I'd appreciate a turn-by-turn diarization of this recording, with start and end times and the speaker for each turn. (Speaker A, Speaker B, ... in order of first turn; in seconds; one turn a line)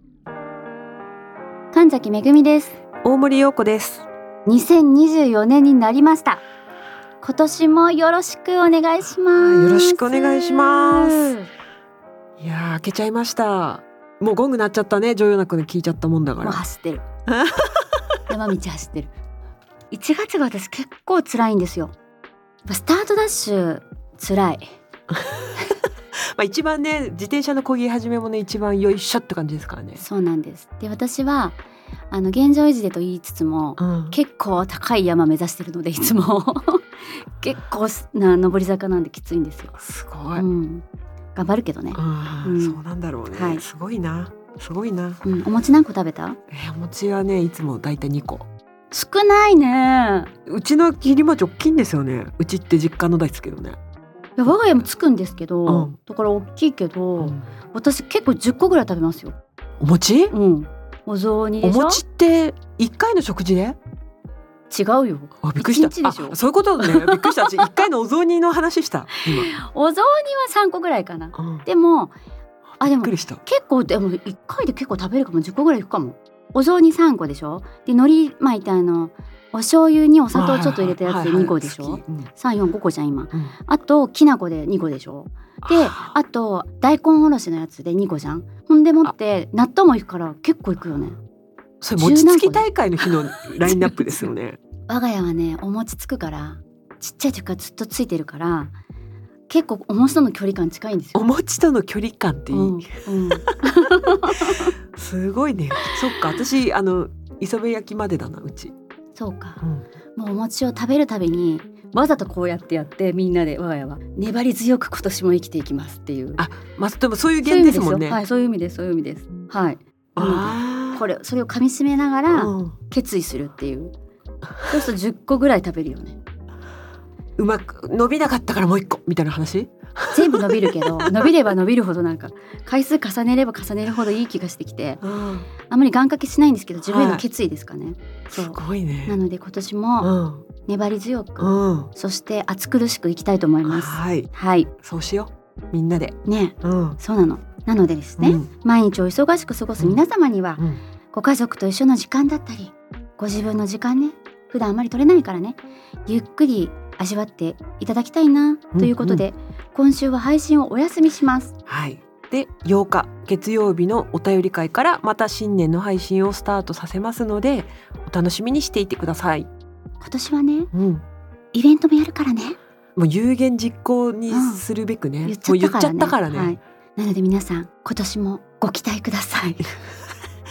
Speaker A: 1.7-2.8
Speaker B: 3.0-4.0
Speaker A: 4.5-6.4
Speaker A: 7.2-11.5
Speaker B: 9.3-11.3
Speaker B: 12.4-16.6
Speaker A: 16.4-17.0
Speaker B: 17.3-17.9
Speaker A: 18.3-19.1
Speaker A: 19.9-21.9
Speaker A: 22.6-24.6
Speaker B: 25.1-25.7
Speaker B: 26.3-30.0
Speaker A: 30.0-31.6
Speaker A: 32.1-36.8
Speaker B: 33.8-34.2
Speaker A: 37.4-39.8
Speaker B: 39.8-40.5
Speaker A: 40.4-40.8
Speaker A: 41.3-42.8
Speaker B: 41.9-45.2
Speaker A: 43.3-43.6
Speaker A: 45.2-46.4
Speaker B: 46.5-48.5
Speaker A: 48.9-50.3
Speaker B: 50.5-53.8
Speaker A: 54.4-59.4
Speaker B: 55.7-55.9
Speaker B: 57.2-57.4
Speaker B: 59.8-60.3
Speaker A: 60.3-62.0
Speaker B: 61.6-63.8
Speaker A: 64.7-67.7
Speaker B: 65.4-69.5
Speaker A: 69.2-72.2
Speaker B: 71.3-71.7
Speaker B: 72.8-73.4
Speaker A: 72.8-91.2
Speaker B: 80.3-82.3
Speaker B: 85.6-86.2
Speaker B: 91.8-94.6
Speaker A: 92.0-92.7
Speaker A: 93.7-94.0
Speaker A: 94.9-98.7
Speaker A: 99.5-101.2
Speaker B: 101.1-108.7
Speaker A: 102.5-104.7
Speaker A: 105.8-106.2
Speaker A: 109.2-109.6
Speaker A: 110.1-116.4
Speaker B: 116.4-118.2
Speaker A: 117.4-123.9
Speaker B: 120.2-121.0
Speaker B: 122.3-122.8
Speaker A: 124.6-126.2
Speaker B: 127.4-131.3
Speaker A: 130.1-135.0
Speaker B: 135.0-135.5
Speaker A: 135.7-140.1
Speaker B: 136.8-137.2
Speaker B: 138.3-139.2
Speaker B: 140.0-140.4
Speaker A: 140.7-144.7
Speaker B: 141.4-141.9
Speaker B: 143.6-144.3
Speaker B: 144.8-147.0
Speaker A: 146.2-161.5
Speaker B: 148.2-148.5
Speaker B: 158.7-159.2
Speaker B: 161.7-169.5
Speaker A: 170.0-170.7
Speaker B: 170.7-171.0
Speaker A: 171.5-172.6
Speaker B: 172.9-176.6
Speaker A: 174.3-174.6
Speaker A: 175.2-179.8